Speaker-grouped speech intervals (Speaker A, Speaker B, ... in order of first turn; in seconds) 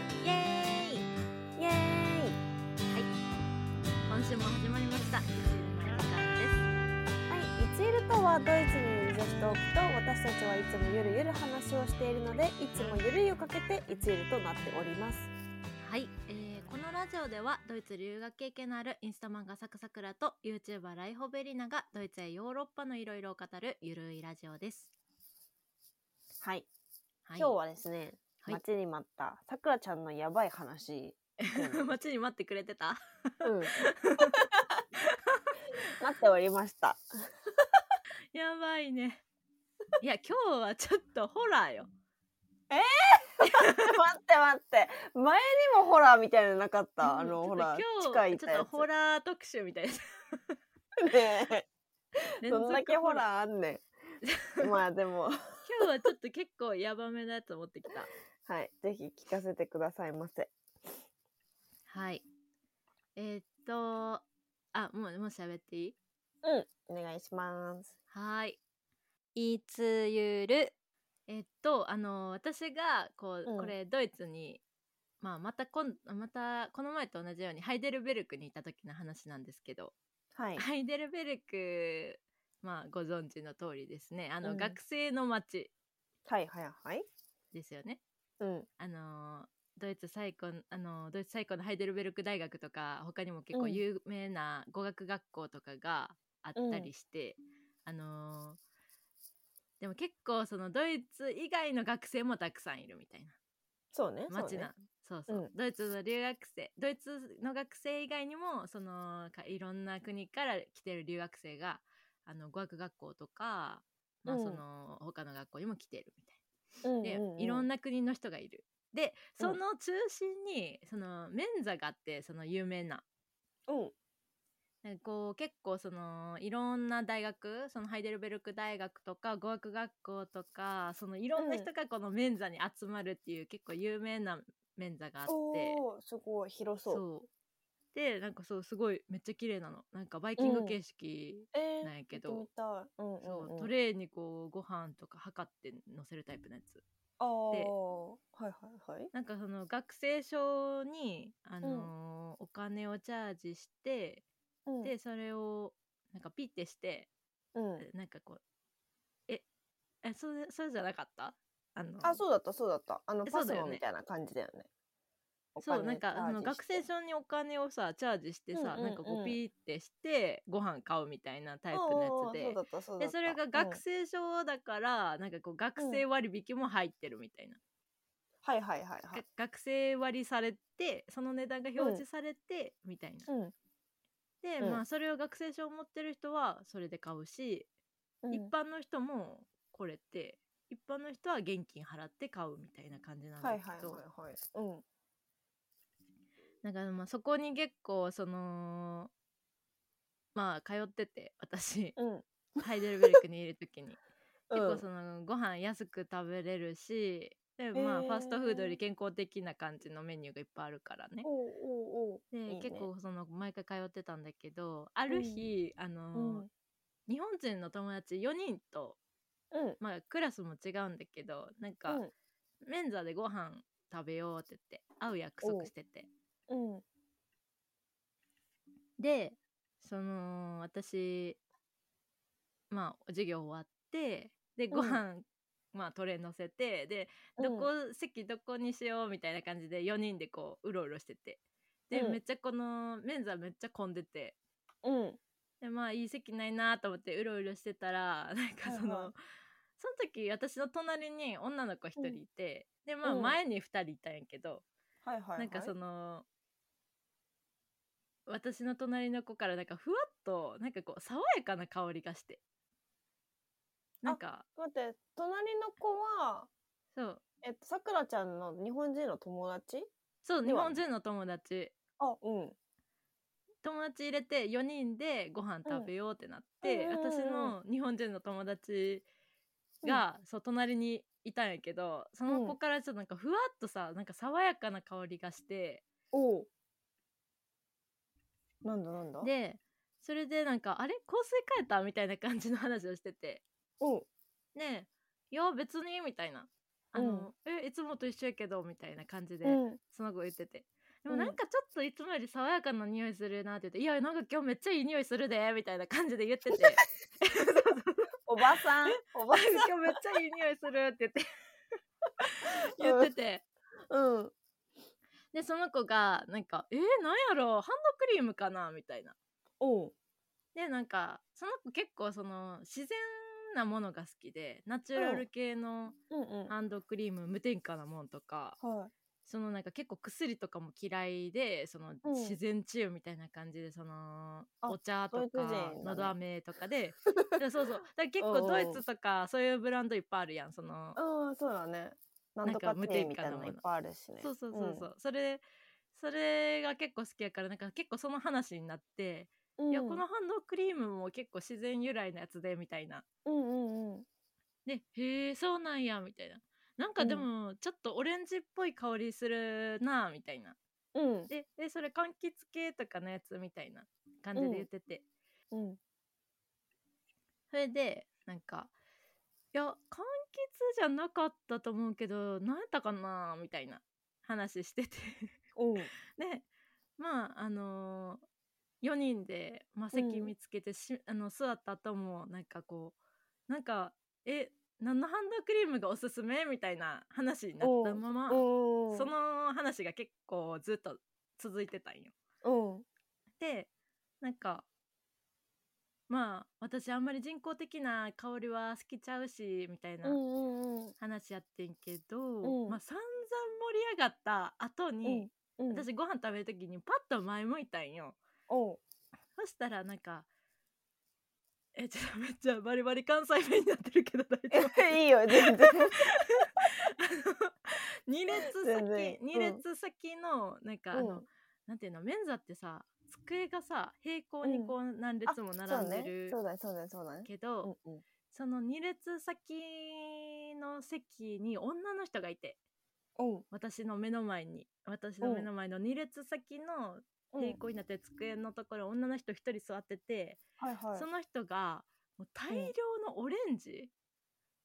Speaker A: 0.2-1.1, 4.1-6.7, 15.8-24.9, 27.3-27.6, 31.4-34.5, 35.1-35.5, 38.3-39.2, 40.0-41.9, 43.5-43.9, 47.0-50.6, 52.4-53.2, 54.2-54.7, 55.6-58.1, 61.9-62.2, 63.2-66.0, 68.1-68.6, 69.3-70.7, 71.3-74.6, 75.2-80.0, 80.6-85.7, 87.5-88.0, 88.8-98.6, 99.8-103.4, 104.3-116.4, 117.0-123.0, 124.8-135.8, 136.9-137.3, 137.9-142.5, 143.2-146.8, 149.1-154.2, 154.8-157.1, 157.8-158.4, 160.0-162.2, 163.2-163.8, 165.6-177.6, 179.1-183.3, 184.4-187.7, 188.3-194.0, 196.6-199.1, 200.3-202.0, 202.6-204.0, 204.5-211.3, 212.3-216.5, 217.1-219.0, 219.8-222.0, 222.7-226.1, 229.0-231.4, 232.7-244.4, 245.6-249.2, 249.8-254.7, 255.4-256.3, 258.3-262.4, 264.0-264.4, 266.9-267.2, 270.2-271.8, 273.6-279.1, 279.8-285.9, 289.2-293.4, 294.6-308.1, 308.9-311.2, 312.3-313.4, 315.3-319.2, 320.5-326.0, 326.5-328.6, 329.2-341.0, 342.4-343.6, 344.2-345.4, 345.9-353.1, 354.7-360.6, 361.3-365.1, 367.5-368.7, 369.5-375.4, 376.2-376.5, 377.0-378.2, 378.8-383.0, 383.5-392.1, 393.4-393.7, 394.2-394.7, 396.1-400.2, 401.0-408.2, 409.4-410.3, 411.8-426.4, 427.2-427.7, 428.3-432.6, 433.5-440.4, 440.9-443.9
Speaker B: 1.6-2.4, 7.3-15.3, 26.4-26.7, 27.4-31.9, 33.4-34.6, 36.0-37.0, 42.7-48.9, 51.0-51.7, 52.4-53.9, 54.6-55.4, 58.5-60.5, 66.4-67.9, 73.5-73.7, 80.3-80.6, 84.4-84.8, 86.3-87.0, 88.4-88.7, 93.5-93.8, 96.6-96.9, 103.9-104.7, 114.3-114.6, 116.8-117.7, 123.7-123.9, 131.4-131.7, 135.3-137.0, 140.4-140.8, 141.5-143.7, 147.2-149.1, 151.6-151.9, 154.7-154.9, 157.6-157.8, 162.0-164.7, 165.6-166.8, 168.5-169.4, 171.7-173.8, 175.8-176.0, 178.4-179.2, 181.8-182.0, 183.3-183.5, 188.2-188.5, 193.4-194.8, 202.0-203.2, 204.5-204.8, 207.8-208.8, 211.2-212.9, 215.1-215.4, 216.2-216.5, 219.5-219.8, 225.4-225.7, 226.5-226.8, 234.7-235.0, 237.4-237.7, 241.9-242.2, 244.8-245.2, 248.7-249.1, 253.1-253.3, 255.0-255.7, 264.1-266.5, 267.4-269.9, 270.4-270.8, 272.0-272.6, 276.6-277.6, 282.3-282.6, 286.1-286.5, 288.6-289.3, 293.8-294.1, 297.0-297.3, 299.4-299.8, 301.1-301.4, 308.3-309.7, 312.8-313.1, 313.9-314.3, 319.6-319.9, 325.0-325.2, 326.1-326.5, 328.6-328.9, 332.1-332.4, 334.6-336.1, 338.2-338.8, 341.0-344.9, 349.6-350.0, 353.2-354.1, 357.0-357.3, 360.9-361.3, 364.4-364.7, 365.5-365.8, 375.6-375.9, 379.9-380.3, 387.6-389.1, 392.4-392.9, 400.0-400.9, 402.4-402.8, 405.1-405.9, 408.5-408.8, 414.5-416.1, 418.6-419.6, 420.9-421.2, 424.4-424.7, 425.3-428.0, 433.2-433.5, 435.2-435.5, 437.3-437.6, 440.6-441.1